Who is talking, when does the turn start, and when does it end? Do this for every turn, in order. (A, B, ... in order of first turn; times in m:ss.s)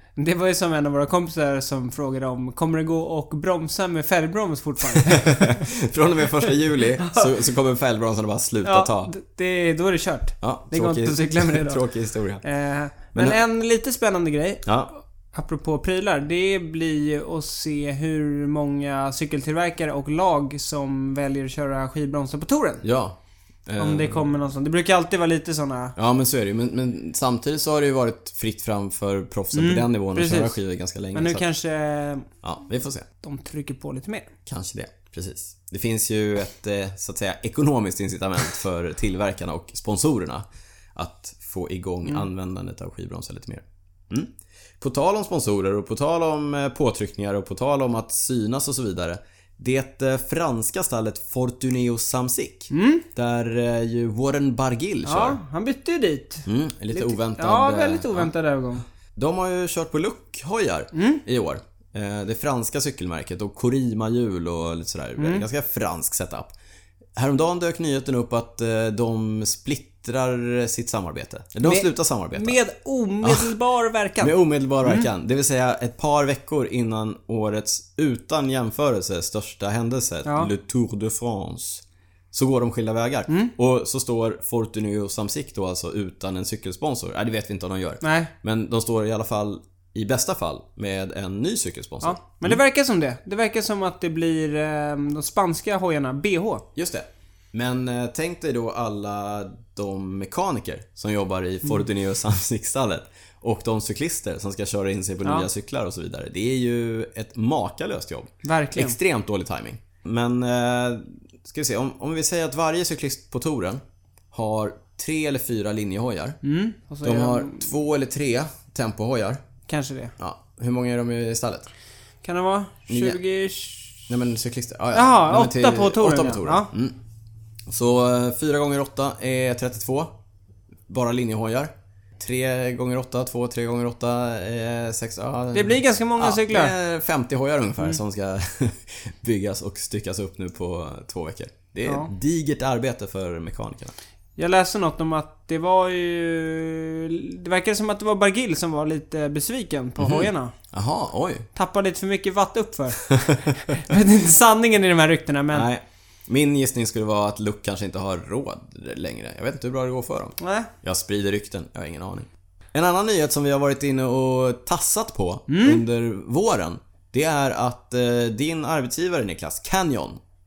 0:00.2-0:05.7 A
0:04.8-0:09.1 B
0:07.0-0:07.3 A
0:08.6-0:11.8 A
0:10.4-0:12.4 B
0:12.4-0:22.8 A
0:13.2-0:13.4 B
0:14.7-0:14.9 B
0:22.8-0:24.2 B
0:23.8-0:26.0 A
0:26.0-0:31.4 B
0:29.5-0:30.6 A
0:31.2-0:32.3 A
0:32.4-0:33.1 B
0:33.2-0:34.3 A
0:34.5-0:55.4 B
0:52.7-0:53.1 A
0:55.0-0:58.8 A
0:56.4-0:58.3 B
0:59.2-1:06.5 B
1:00.9-1:01.2 A
1:05.2-1:05.5 A
1:07.2-1:12.6 B
1:11.6-1:15.1 A
1:13.2-1:13.5 B
1:14.2-1:32.6 B
1:28.0-1:28.3 A
1:32.0-1:36.7 A
1:36.8-1:53.8 B
1:48.4-1:49.0 A
1:54.3-1:56.4 B
1:56.4-1:57.7 A
1:57.0-1:59.4 B
1:59.7-2:00.1 A
2:00.2-2:01.7 B
2:02.2-2:04.1 A
2:02.9-2:03.2 B
2:04.1-2:07.0 B
2:04.9-2:06.7 A
2:07.7-2:10.1 B
2:10.9-2:23.9 B
2:15.5-2:16.7 A
2:21.9-2:22.1 A
2:24.4-2:30.5 A
2:30.0-2:31.5 B
2:31.6-2:35.7 A
2:33.0-2:33.6 B
2:35.5-2:50.2 B
2:40.4-2:40.7 A
2:45.5-2:45.8 A